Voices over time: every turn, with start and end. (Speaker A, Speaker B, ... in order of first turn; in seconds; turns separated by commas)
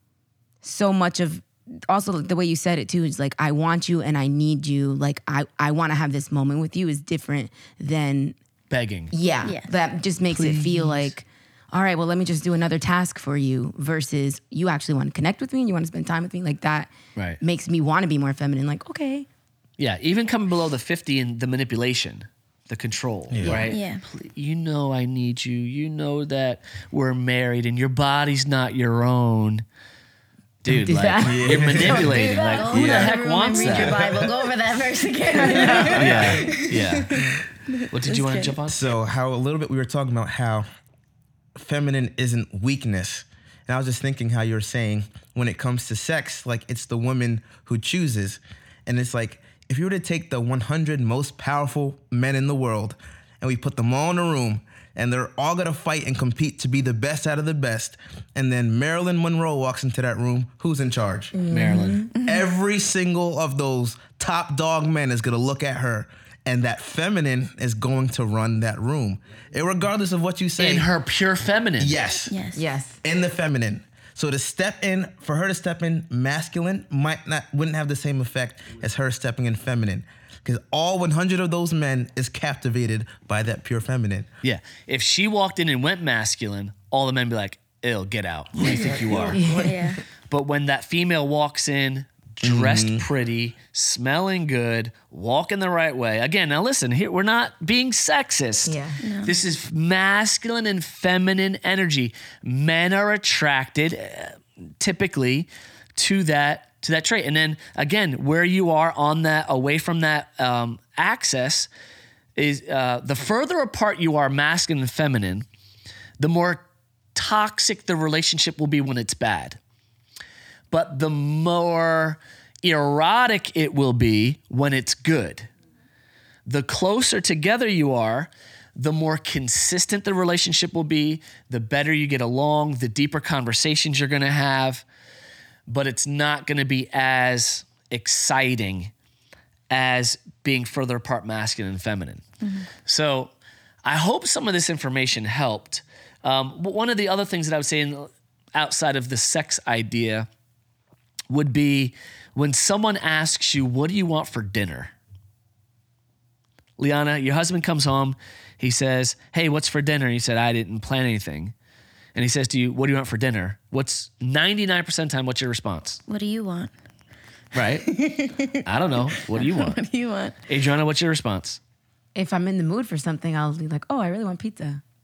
Speaker A: 0.6-8.4, Speaker B: 8.7-9.1, Speaker A: 9.1-19.3, Speaker C: 9.4-9.8, Speaker B: 10.3-11.1, Speaker B: 19.8-29.6, Speaker D: 23.3-23.7, Speaker C: 23.5-24.0, Speaker B: 30.6-34.0, Speaker A: 30.7-31.8, Speaker D: 31.2-34.4, Speaker C: 31.6-38.5, Speaker A: 35.5-36.0, Speaker D: 35.6-36.5, Speaker B: 35.9-37.2, Speaker B: 37.9-38.9, Speaker D: 38.7-40.6, Speaker D: 41.6-61.4, Speaker A: 61.3-62.1, Speaker B: 61.5-62.0, Speaker C: 62.1-62.4, Speaker D: 62.1-70.9, Speaker B: 70.6-72.0, Speaker D: 71.8-72.3, Speaker C: 72.3-72.6, Speaker A: 72.5-73.0, Speaker D: 73.0-84.3, Speaker B: 84.4-89.6, Speaker D: 88.6-89.7, Speaker A: 89.3-89.9, Speaker C: 89.6-90.0, Speaker B: 90.3-111.7, Speaker D: 92.4-93.0, Speaker A: 98.7-99.0, Speaker C: 99.0-99.3, Speaker B: 112.4-115.5, Speaker B: 116.2-116.6, Speaker B: 117.1-119.6, Speaker B: 120.7-125.5, Speaker B: 126.5-134.8, Speaker B: 135.7-138.9, Speaker B: 139.7-142.2, Speaker C: 142.4-142.7, Speaker B: 142.8-143.3, Speaker B: 143.8-150.3, Speaker B: 151.3-154.9, Speaker B: 156.8-161.5, Speaker B: 162.1-166.0, Speaker C: 166.1-166.7, Speaker B: 167.5-167.9, Speaker C: 167.9-168.6, Speaker B: 168.6-169.8, Speaker C: 169.3-170.4, Speaker B: 170.5-171.6, Speaker A: 172.1-174.8